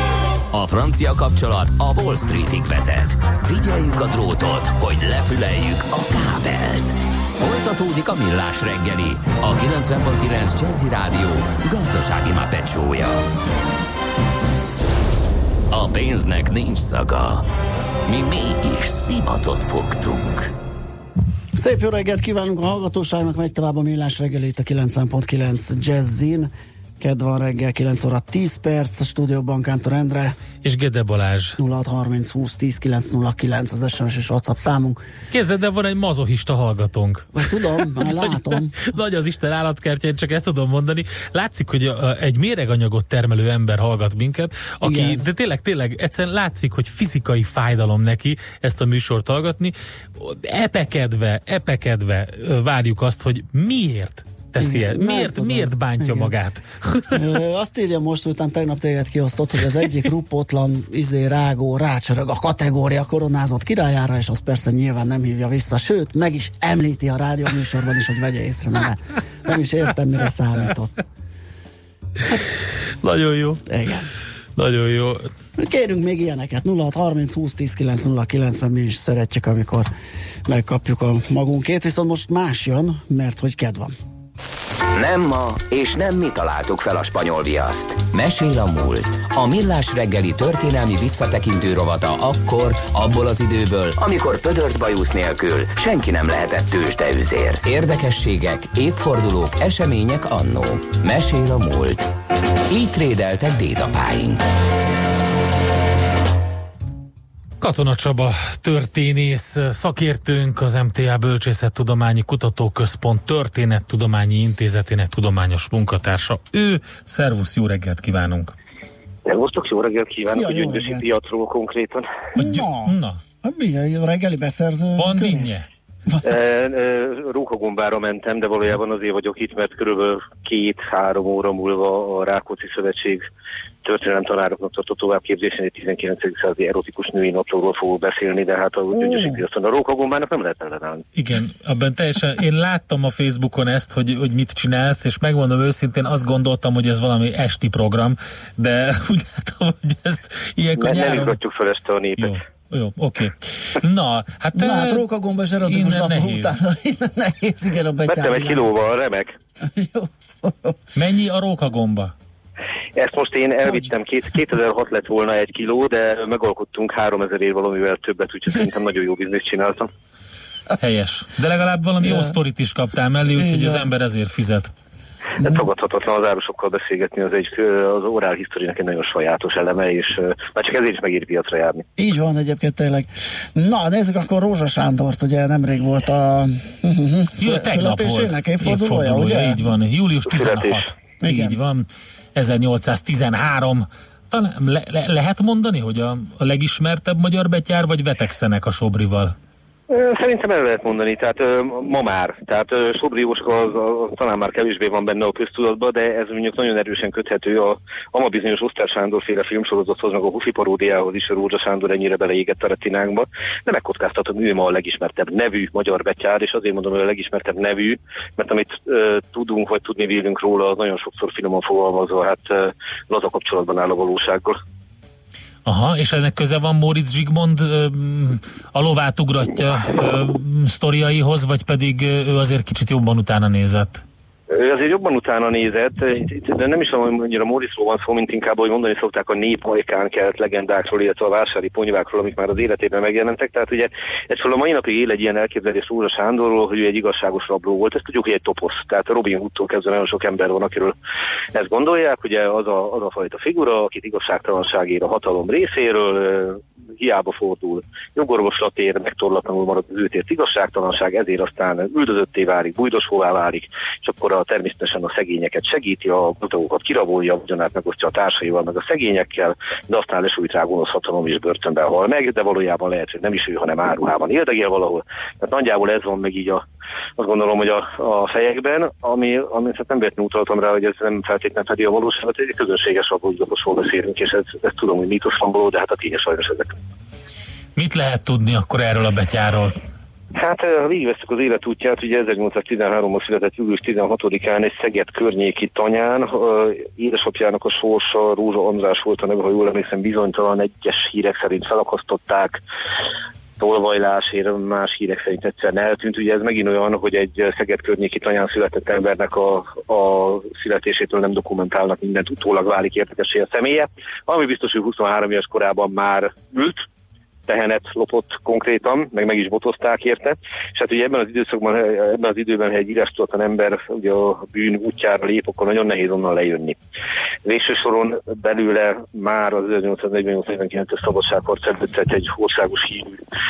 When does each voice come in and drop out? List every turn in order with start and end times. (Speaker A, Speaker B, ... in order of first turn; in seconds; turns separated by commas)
Speaker A: 0.5-13.2, Speaker A: 15.7-17.4, Speaker A: 18.1-20.5, Speaker B: 21.6-30.4, Speaker C: 30.6-31.6, Speaker B: 31.6-35.0, Speaker C: 35.3-37.3, Speaker B: 37.4-38.7, Speaker C: 37.9-57.3, Speaker B: 44.8-45.2, Speaker B: 54.6-56.3, Speaker B: 57.1-71.0, Speaker C: 73.0-73.6, Speaker B: 73.7-74.1, Speaker C: 74.6-75.3, Speaker B: 75.6-79.9, Speaker B: 80.5-83.9, Speaker A: 85.0-102.1, Speaker A: 102.7-104.4, Speaker C: 107.6-118.5, Speaker D: 119.3-122.1, Speaker B: 120.2-121.1, Speaker C: 122.4-123.2, Speaker B: 122.4-125.5, Speaker C: 125.0-125.7, Speaker D: 126.2-133.2, Speaker D: 133.8-141.0, Speaker B: 138.9-139.4, Speaker C: 141.2-151.4, Speaker D: 150.8-152.4, Speaker C: 152.2-155.0, Speaker B: 154.6-158.7, Speaker C: 155.7-156.5, Speaker D: 158.1-159.3, Speaker B: 159.6-160.8, Speaker C: 160.9-162.1, Speaker D: 162.9-169.9, Speaker C: 170.8-174.7, Speaker B: 172.0-172.3, Speaker B: 173.4-173.8, Speaker D: 175.4-181.9, Speaker B: 182.0-189.7, Speaker C: 187.4-199.3, Speaker D: 190.3-190.9, Speaker B: 191.2-191.6, Speaker D: 199.9-224.6, Speaker C: 225.7-234.0, Speaker D: 234.5-250.9, Speaker D: 251.6-276.6, Speaker D: 277.2-286.8, Speaker C: 287.8-289.8, Speaker D: 290.4-302.6, Speaker D: 303.6-316.8, Speaker D: 317.5-326.8, Speaker D: 327.4-333.2